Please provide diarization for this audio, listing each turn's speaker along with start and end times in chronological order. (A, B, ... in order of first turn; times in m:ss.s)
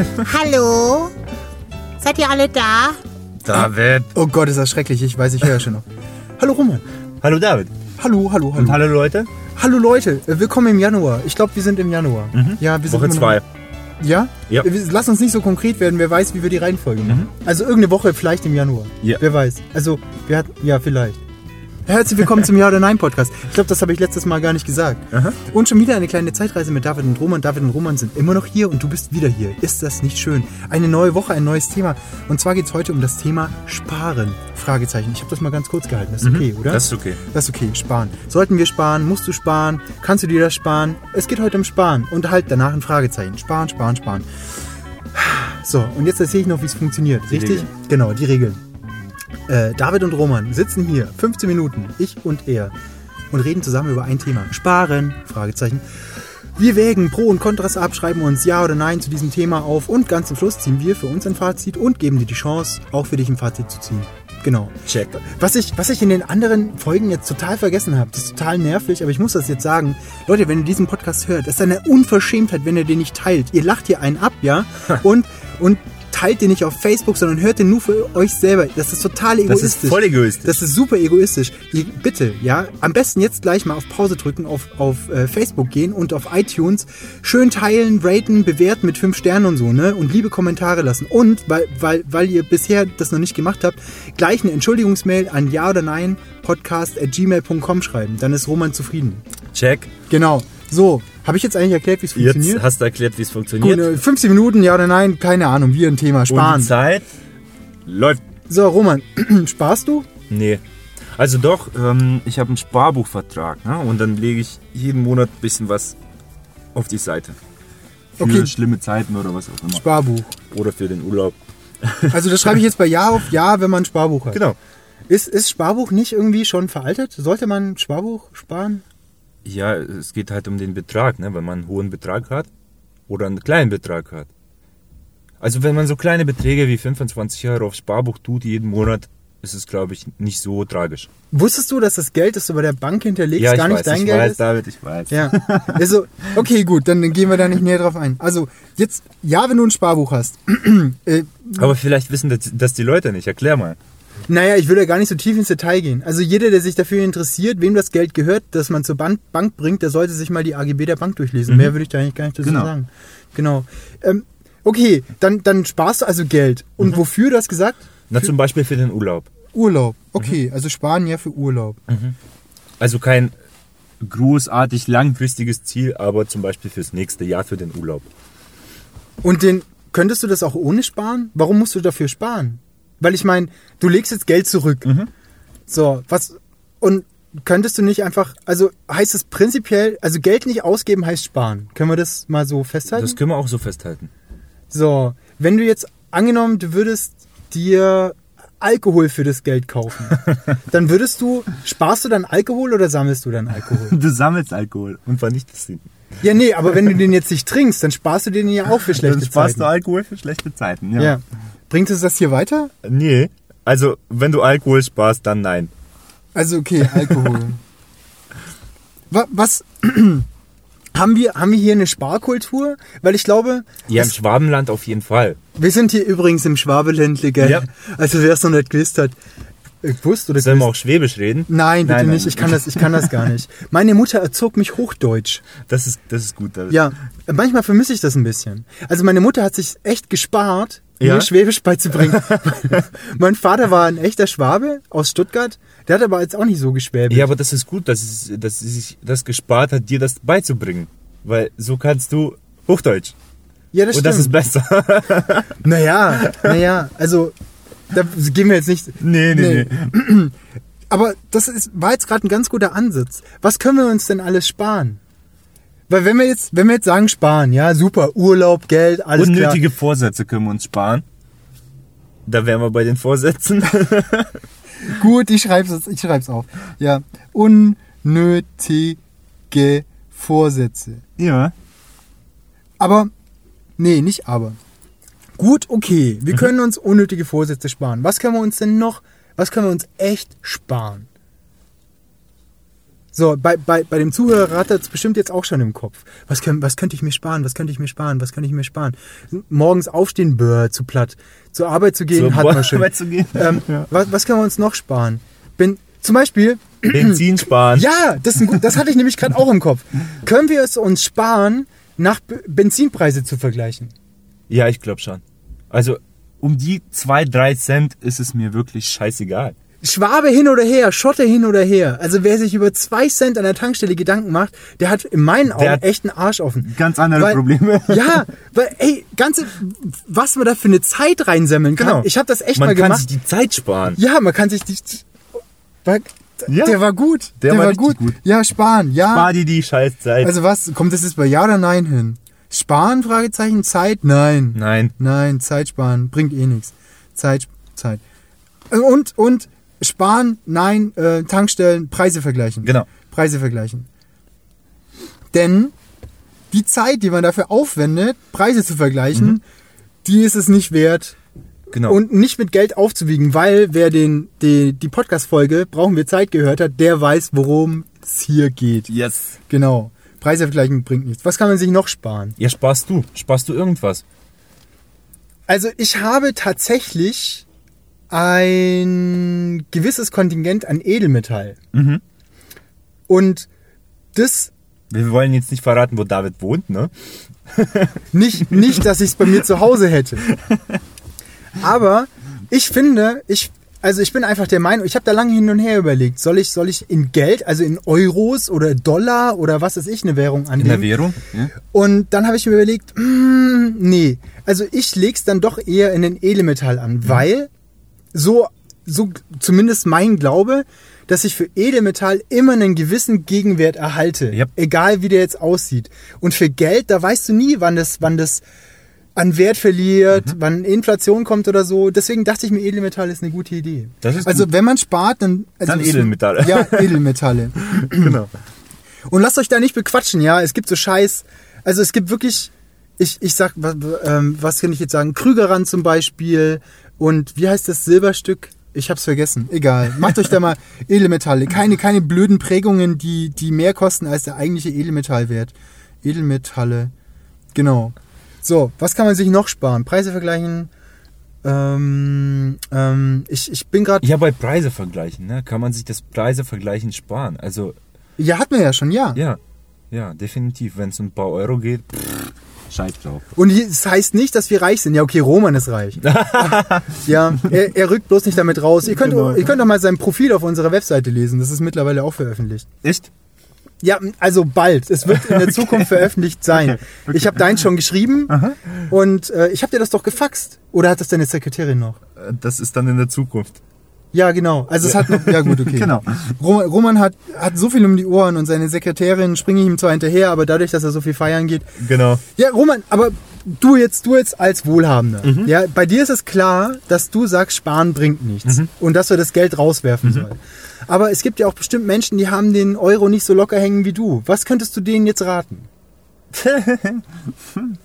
0:00.2-0:01.1 A
0:02.0-0:03.0 A
0:03.4-0:04.1 B
0:03.5-0:05.9 C
0:06.4-0:06.8 C
0:07.2-0:07.7 B
0:08.0-0:08.8 C
0:08.5-0:09.3 B
0:09.5-0:13.4 C
0:12.3-0:13.4 B
0:14.0-0:21.2 C
0:21.9-0:44.3 C
0:25.1-0:25.4 B
0:36.2-0:37.2 B
0:45.1-0:48.6 C
0:47.3-0:47.7 B
0:49.5-0:52.8 C
0:53.3-1:39.2 C
1:04.9-1:05.2 B
1:19.4-1:20.6 B
1:39.5-1:39.9 B
1:40.1-1:42.6 C
1:42.1-1:43.9 B
1:43.6-1:46.7 C
1:46.3-1:47.0 B
1:47.9-1:48.2 B
1:48.5-1:50.1 C
1:50.3-1:50.6 B
1:51.1-1:56.0 B
1:56.8-1:57.4 B
1:58.2-1:59.8 B
1:58.2-1:58.5 C
1:59.7-2:00.3 C
2:00.5-2:02.5 B
2:02.1-2:04.4 C
2:05.1-2:08.8 C
2:09.4-2:12.5 B
2:13.1-2:14.3 B
2:15.4-2:21.1 B
2:21.3-2:24.4 C
2:23.4-2:25.8 B
2:25.1-2:31.7 C
2:31.6-2:33.8 B
2:34.3-2:48.3 C
2:41.5-2:41.8 B
2:42.4-2:42.7 B
2:48.1-2:49.3 B
2:49.5-2:51.8 C
2:51.9-2:52.2 B
2:52.8-2:53.3 B
2:54.0-2:58.1 B
2:59.2-3:04.9 C
3:04.8-3:05.1 B
3:05.7-3:13.2 C
3:12.9-3:14.1 B
3:14.7-3:24.0 C
3:23.6-3:25.8 B
3:26.2-3:29.7 C
3:28.9-3:31.2 B
3:31.0-3:32.7 C
3:32.8-3:35.7 B
3:36.3-3:37.6 C
3:39.1-3:40.3 C
3:40.9-3:44.1 C
3:43.9-3:45.4 B
3:45.6-3:49.2 C
3:47.4-3:47.7 B
3:49.8-3:50.7 C
3:50.4-3:53.3 B
3:51.5-3:55.5 C
3:55.7-3:56.9 B
3:56.7-4:07.3 C
4:01.0-4:01.3 B
4:01.9-4:02.8 B
4:07.1-4:13.2 B
4:13.7-4:14.3 C
4:13.9-4:16.6 B
4:15.6-4:17.4 C
4:17.9-4:20.4 C
4:19.0-4:19.9 B
4:20.9-4:25.0 C
4:25.9-4:29.6 C
4:29.2-4:31.0 B
4:32.3-4:34.4 B
4:34.8-4:39.0 C
4:39.5-4:41.0 C
4:41.2-4:41.5 B
4:42.8-4:43.1 C
4:43.8-4:44.6 C
4:45.4-4:51.1 C
4:53.1-5:13.9 C
5:02.1-5:03.9 B
5:06.9-5:07.9 B
5:14.5-5:19.6 B
5:19.8-5:33.1 C
5:25.5-5:25.8 B
5:26.6-5:28.2 B
5:31.8-5:34.0 B
5:34.0-5:35.0 C
5:35.8-5:39.3 C
5:36.5-5:36.8 B
5:37.4-5:38.2 B
5:39.1-5:40.3 B
5:40.2-5:48.0 C
5:44.6-5:44.9 B
5:48.7-5:53.9 C
5:52.6-5:52.9 B
5:55.3-5:55.7 C
5:56.5-5:59.4 C
6:00.0-6:01.2 C
6:01.7-6:02.0 B
6:01.8-6:08.9 C
6:08.9-6:09.4 B
6:09.5-6:12.4 C
6:12.4-6:14.0 B
6:15.5-6:17.4 C
6:18.1-6:21.6 C
6:21.7-6:22.0 B
6:23.1-6:23.5 C
6:24.1-6:24.5 C
6:24.9-6:26.9 B
6:27.5-6:27.9 B
6:28.1-6:30.2 C
6:28.5-6:28.8 B
6:30.3-6:30.8 B
6:31.6-6:40.9 C
6:40.6-6:41.5 B
6:41.6-6:47.5 C
6:48.1-6:58.4 C
6:59.2-7:08.2 C
7:04.0-7:04.5 B
7:05.6-7:07.0 B
7:07.6-7:08.3 B
7:09.1-7:26.9 C
7:27.5-7:30.7 C
7:31.4-7:34.1 C
7:34.0-7:37.8 B
7:38.2-7:39.2 C
7:39.2-7:39.4 B
7:39.9-7:43.2 B
7:43.3-7:52.7 C
7:46.0-7:47.5 B
7:48.8-7:49.6 B
7:52.8-7:53.1 B
7:53.8-8:02.0 C
7:55.0-7:57.7 B
7:58.3-7:58.8 B
8:02.2-8:03.6 B
8:04.1-8:11.7 C
8:04.8-8:06.3 B
8:11.8-8:12.2 B
8:12.4-8:25.7 C
8:15.2-8:15.5 B
8:18.4-8:18.7 B
8:26.3-8:27.0 B